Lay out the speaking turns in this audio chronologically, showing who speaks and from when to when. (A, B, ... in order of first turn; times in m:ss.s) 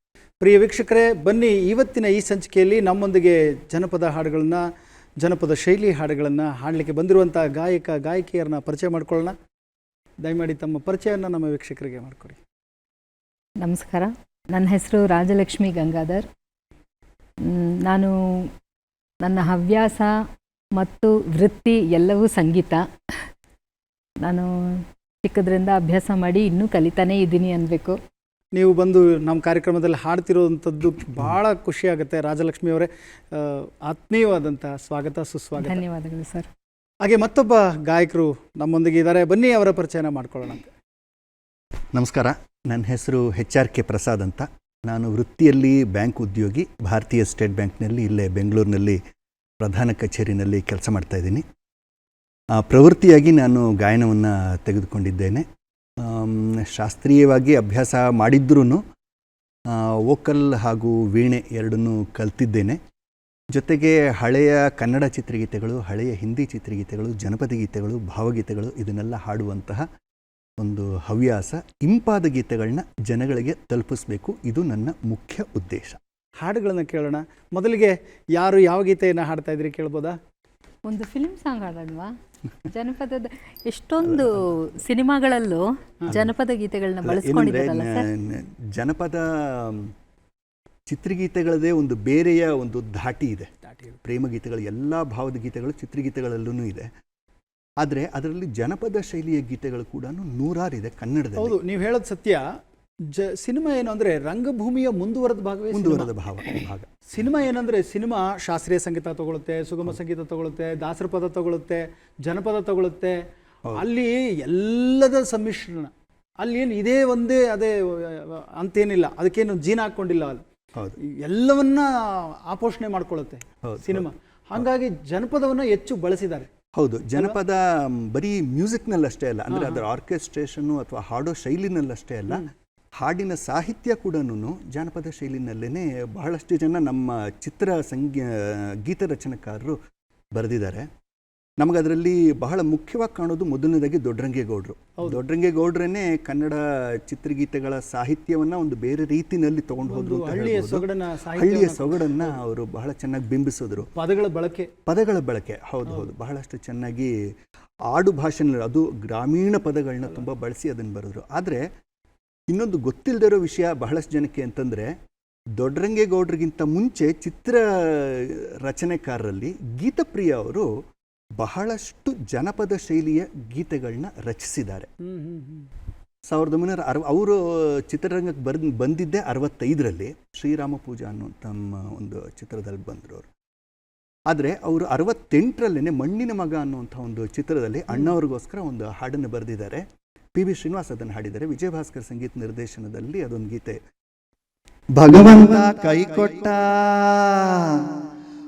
0:00.4-0:04.6 A
0:05.2-0:09.4 A
0:10.2-0:12.4 A
0:13.6-0:16.2 B
0:17.4-0:18.5 B
0:19.2-0:20.2 B
0:20.8-0:22.8 B
0:24.2-0:28.0 B
0:28.5-0:35.8 A
0:35.6-0:36.5 B
0:37.0-0:40.7 A
0:41.9-0:49.0 C
0:49.6-0:51.4 C
0:52.5-0:55.5 C
0:56.0-0:58.8 C
0:59.7-1:02.8 C
1:03.5-1:09.9 C
1:10.6-1:16.0 C
1:16.4-1:20.2 A
1:20.9-1:22.1 B
1:22.6-1:28.1 B
1:24.0-1:24.4 C
1:27.0-1:29.9 C
1:30.9-1:33.5 C
1:33.6-1:34.0 A
1:34.0-1:36.9 C
1:37.8-1:41.6 C
1:41.4-1:42.4 A
1:43.1-1:46.1 A
1:45.7-1:46.9 C
1:47.1-1:53.2 A
1:53.7-2:00.4 A
2:01.0-2:06.5 A
2:03.6-2:04.6 C
2:06.7-2:12.4 C
2:09.5-2:09.8 A
2:13.0-2:19.8 C
2:20.3-2:20.9 C
2:21.6-2:33.9 C
2:29.8-2:32.3 A
2:33.9-2:34.7 A
2:34.8-2:37.1 C
2:37.9-2:41.7 C
2:42.5-2:45.0 C
2:45.5-2:50.7 C
2:51.4-2:54.9 C
2:55.0-2:55.7 A
2:56.3-3:03.3 C
3:04.3-3:13.8 C
3:14.9-3:18.0 C